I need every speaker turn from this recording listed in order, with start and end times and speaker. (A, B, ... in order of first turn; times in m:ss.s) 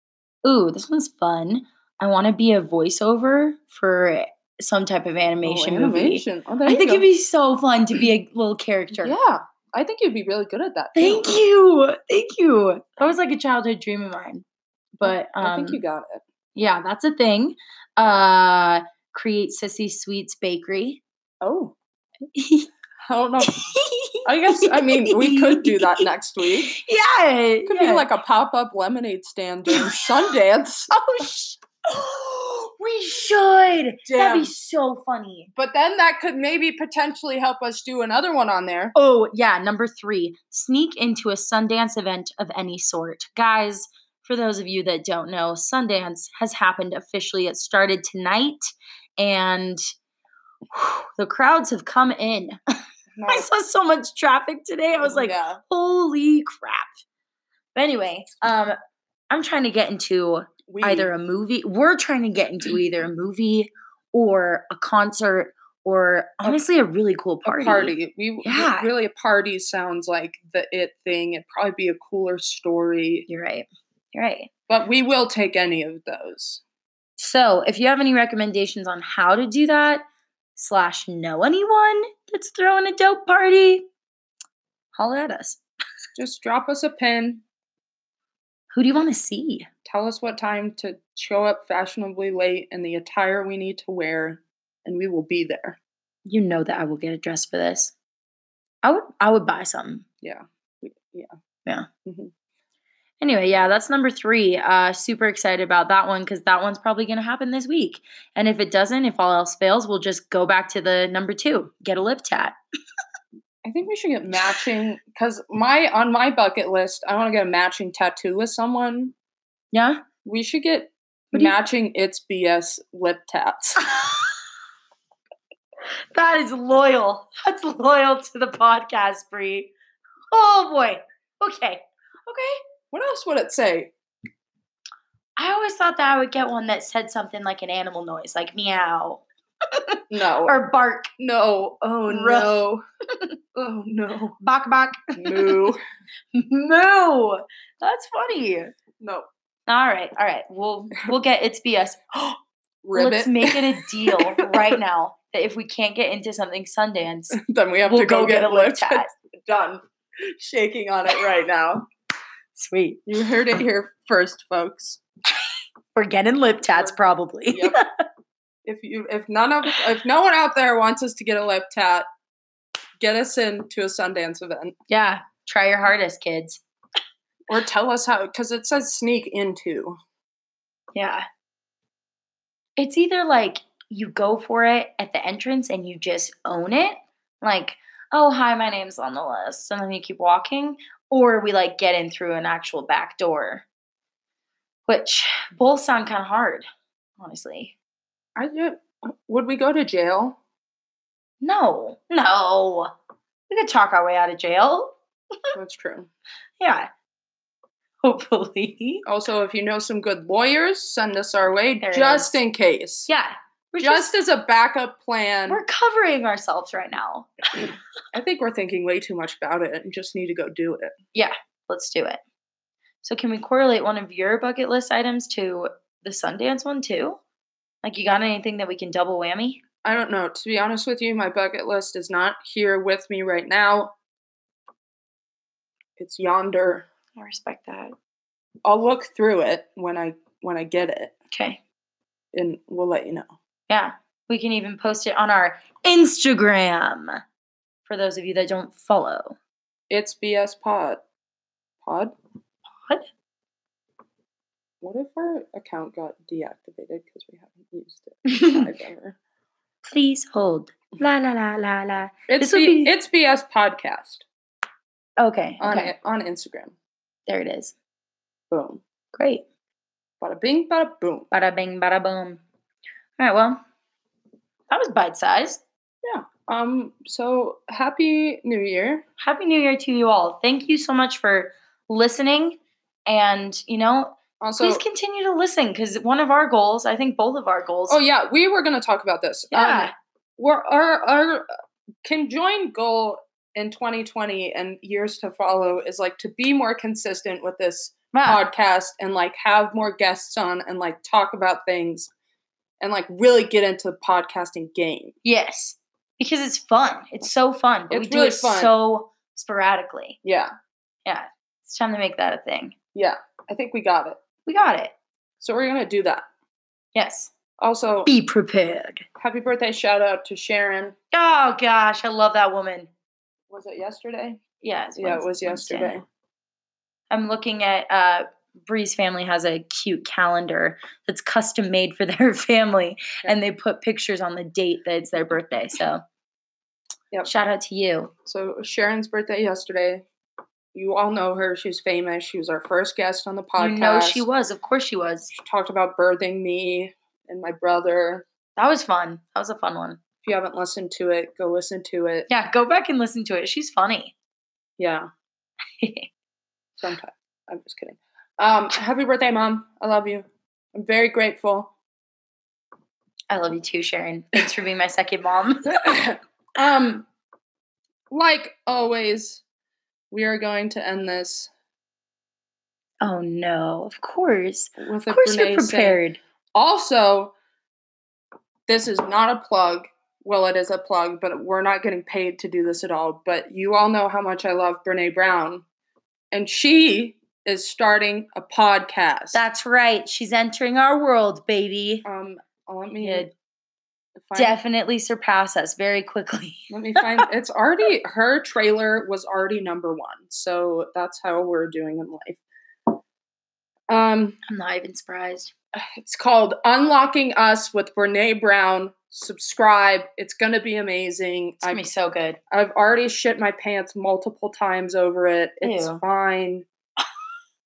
0:00.4-0:09.2 A
0:05.4-0:07.1 B
0:09.0-0:11.4 B
0:10.9-0:14.4 A
0:15.0-0:15.8 A
0:15.0-0:16.2 B
0:16.6-0:21.0 A
0:21.4-0:21.7 B
0:22.3-0:22.7 A
0:23.0-0:23.5 B
0:23.4-0:26.1 A
0:24.2-0:26.7 B
0:26.7-0:28.1 A
0:27.6-0:30.9 B
0:29.7-0:30.1 A
0:30.9-0:35.5 A
0:34.0-0:34.5 B
0:35.6-0:38.9 B
0:38.9-0:49.8 A
0:50.7-0:52.6 A
0:53.1-0:53.5 B
0:53.3-0:56.9 A
0:55.0-0:55.6 B
0:57.7-0:58.7 A
0:59.3-1:08.9 A
1:00.7-1:01.1 B
1:07.4-1:13.3 B
1:13.3-1:14.5 A
1:14.7-1:16.6 B
1:17.2-1:20.0 A
1:20.6-1:23.8 A
1:25.0-1:25.6 A
1:26.2-1:27.4 B
1:28.7-1:29.7 A
1:29.8-1:35.8 B
1:36.2-1:37.9 A
1:38.8-1:40.0 A
1:40.2-1:41.3 B
1:42.0-1:42.3 B
1:43.2-1:52.6 A
1:53.6-1:59.1 B
1:59.7-2:00.0 A
2:00.2-2:03.8 B
2:03.9-2:04.3 A
2:06.1-2:09.7 A
2:10.3-2:12.6 A
2:12.9-2:13.9 B
2:15.4-2:21.1 A
2:20.1-2:20.6 B
2:21.2-2:22.8 B
2:22.0-2:22.6 A
2:23.5-2:24.4 B
2:24.4-2:25.7 A
2:25.2-2:25.8 B
2:26.3-2:28.7 A
2:29.0-2:29.3 B
2:29.7-2:32.4 A
2:32.8-2:34.8 B
2:32.9-2:39.1 A
2:37.3-2:41.8 B
2:42.5-2:43.0 A
2:43.1-2:45.0 B
2:45.9-2:48.0 A
2:47.5-2:47.8 B
2:48.6-2:52.1 B
2:53.0-2:54.7 B
2:54.9-2:56.6 A
2:57.5-3:00.0 B
3:01.0-3:01.2 A
3:02.8-3:13.6 A
3:14.9-3:16.6 A
3:17.2-3:17.7 A
3:18.4-3:20.4 B
3:21.4-3:22.9 A
3:23.5-3:25.0 A
3:25.5-3:26.1 B
3:26.6-3:26.9 A
3:28.0-3:29.0 A
3:29.0-3:33.1 B
3:31.8-3:32.4 A
3:33.1-3:34.1 A
3:33.8-3:35.6 B
3:35.5-3:37.7 A
3:38.1-3:40.9 B
3:41.1-3:42.2 A
3:43.0-3:47.2 A
3:47.8-3:49.6 A
3:49.8-3:53.9 B
3:56.0-3:56.8 B
3:57.2-3:57.9 A
3:58.6-4:01.1 B
4:01.3-4:01.6 A
4:02.3-4:03.3 B
4:03.7-4:07.2 A
4:07.8-4:09.4 A
4:09.9-4:11.0 B
4:11.8-4:12.1 B
4:14.8-4:19.2 B
4:18.3-4:18.7 A
4:19.8-4:22.9 A
4:22.3-4:24.2 B
4:25.2-4:25.9 A
4:25.6-4:26.7 B
4:27.3-4:27.7 A
4:28.5-4:28.8 B
4:29.1-4:29.4 A
4:30.2-4:31.3 B
4:31.3-4:32.4 A
4:33.2-4:33.6 A
4:34.7-4:35.6 A
4:36.0-4:39.0 B
4:39.2-4:48.0 A
4:44.4-4:44.8 B
4:47.9-4:51.5 B
4:49.5-4:49.9 A
4:52.0-5:02.1 B
4:58.1-4:58.4 A
5:02.8-5:05.1 B
5:05.2-5:10.2 A
5:07.9-5:08.8 B
5:10.2-5:10.5 B
5:11.0-5:12.7 A
5:12.9-5:14.2 B
5:14.4-5:14.9 A
5:15.4-5:16.2 B
5:16.9-5:17.3 A
5:17.6-5:18.1 B
5:18.0-5:19.0 A
5:19.2-5:21.0 B
5:21.1-5:22.9 A
5:23.5-5:24.4 B
5:24.6-5:26.0 A
5:25.0-5:26.0 B
5:27.1-5:36.0 A
5:37.2-5:38.1 A
5:38.2-5:40.0 B
5:40.7-5:44.2 B
5:43.6-5:45.3 A
5:45.3-5:48.2 B
5:48.6-5:50.0 A
5:50.2-5:52.3 B
5:52.3-5:54.1 A
5:54.8-5:55.1 B
5:55.8-5:56.1 A
5:56.8-6:01.7 B
6:03.3-6:05.8 A
6:05.8-6:07.1 B
6:08.1-6:09.4 B
6:10.1-6:11.5 B
6:13.0-6:16.2 A
6:14.8-6:16.0 B
6:16.5-6:17.3 B
6:18.7-6:25.6 B
6:26.3-6:29.4 B
6:29.3-6:32.0 A
6:32.0-6:33.3 B
6:33.0-6:33.3 A
6:34.2-6:34.6 B
6:34.3-6:37.2 A
6:36.7-6:42.4 B
6:43.9-6:44.4 B
6:44.5-6:45.5 A
6:45.7-6:51.8 B
6:51.6-6:52.4 A
6:52.5-6:56.6 B
6:55.6-6:56.0 A